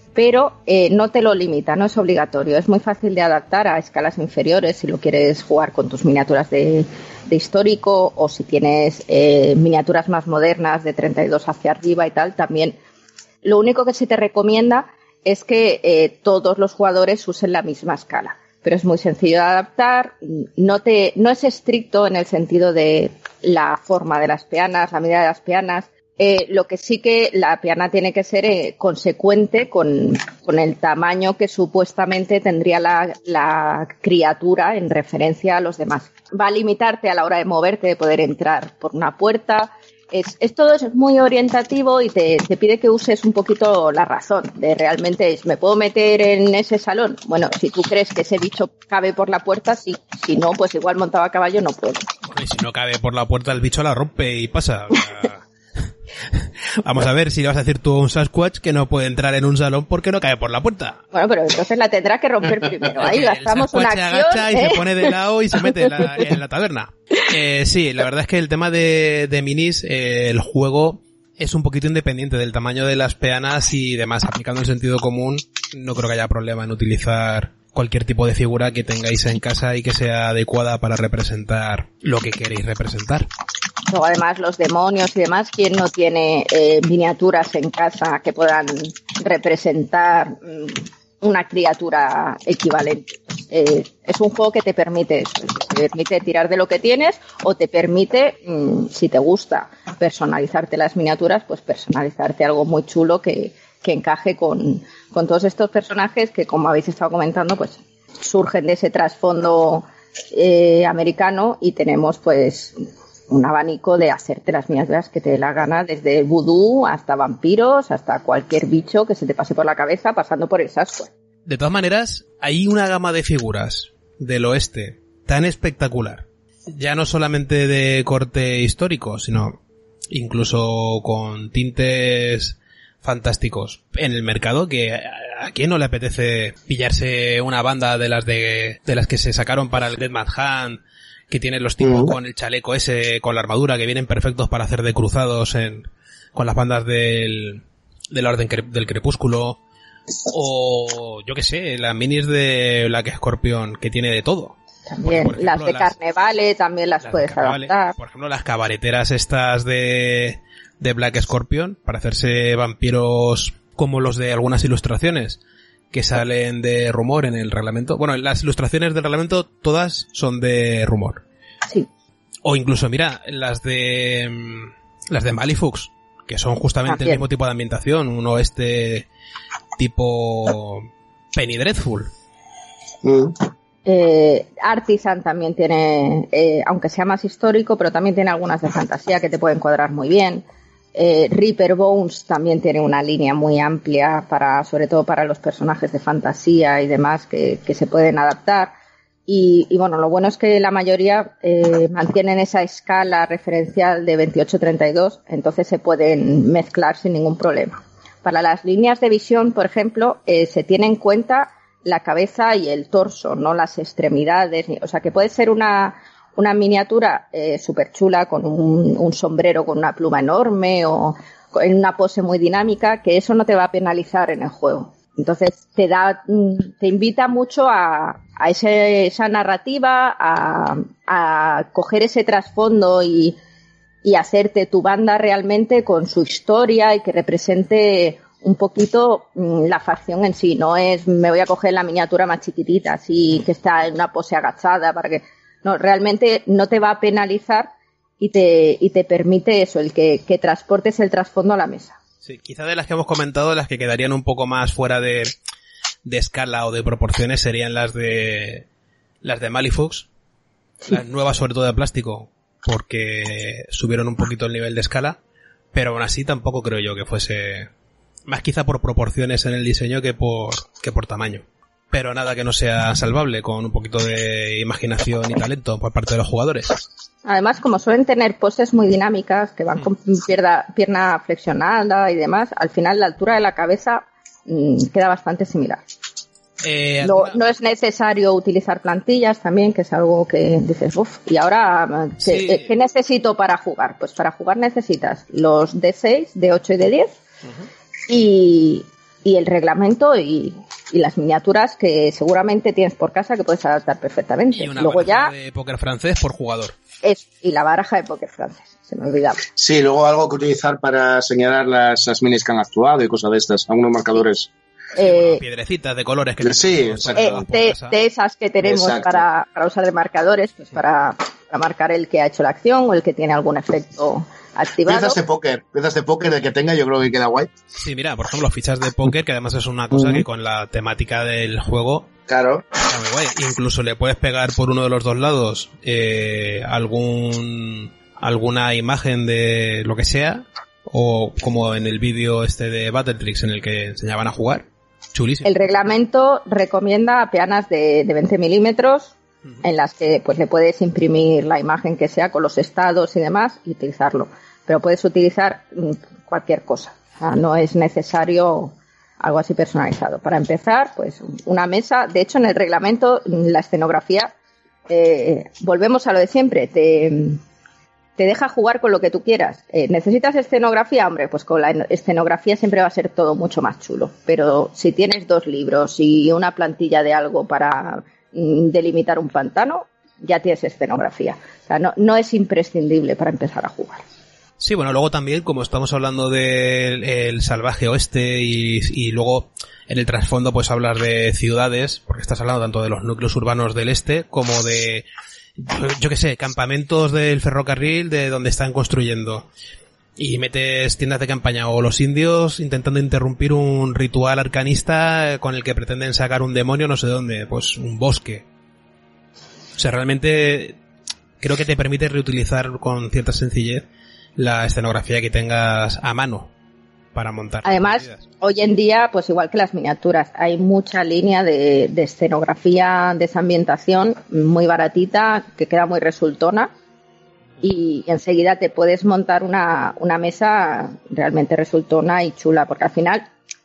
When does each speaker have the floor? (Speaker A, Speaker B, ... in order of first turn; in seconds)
Speaker A: 0.1-12.8, 13.4-52.1, 61.1-65.1, 83.9-112.8, 113.3-121.1, 154.9-157.9, 176.9-177.2, 183.9-190.4, 190.9-198.7, 199.3-233.4, 234.0-247.7, 248.2-251.9, 277.3-285.8, 287.0-297.1, 298.1-305.3, 307.0-309.4, 314.9-315.4, 317.2-325.2, 345.4-364.3, 364.9-367.4, 368.2-384.0, 417.6-426.7, 427.6-433.3
Speaker B: 52.3-61.0, 63.0-83.3, 121.5-129.6, 130.1-149.6, 150.3-155.9, 157.0-165.4, 165.9-171.2, 172.4-179.1, 179.8-182.1, 252.2-255.3, 256.1-258.6, 259.2-260.1, 260.9-265.2, 265.7-267.7, 268.3-276.8, 286.6-287.4, 292.2-292.7, 304.6-306.8, 315.0-318.0, 327.7-332.1, 332.9-345.6, 384.6-395.1, 395.6-399.5, 400.2-408.4, 409.8-410.8, 411.4-413.9, 414.4-416.5, 417.1-418.2
Speaker C: 141.8-142.1, 183.0-183.4, 309.6-314.5, 316.4-317.3, 318.6-319.2, 324.9-327.5, 329.9-330.2, 332.3-332.6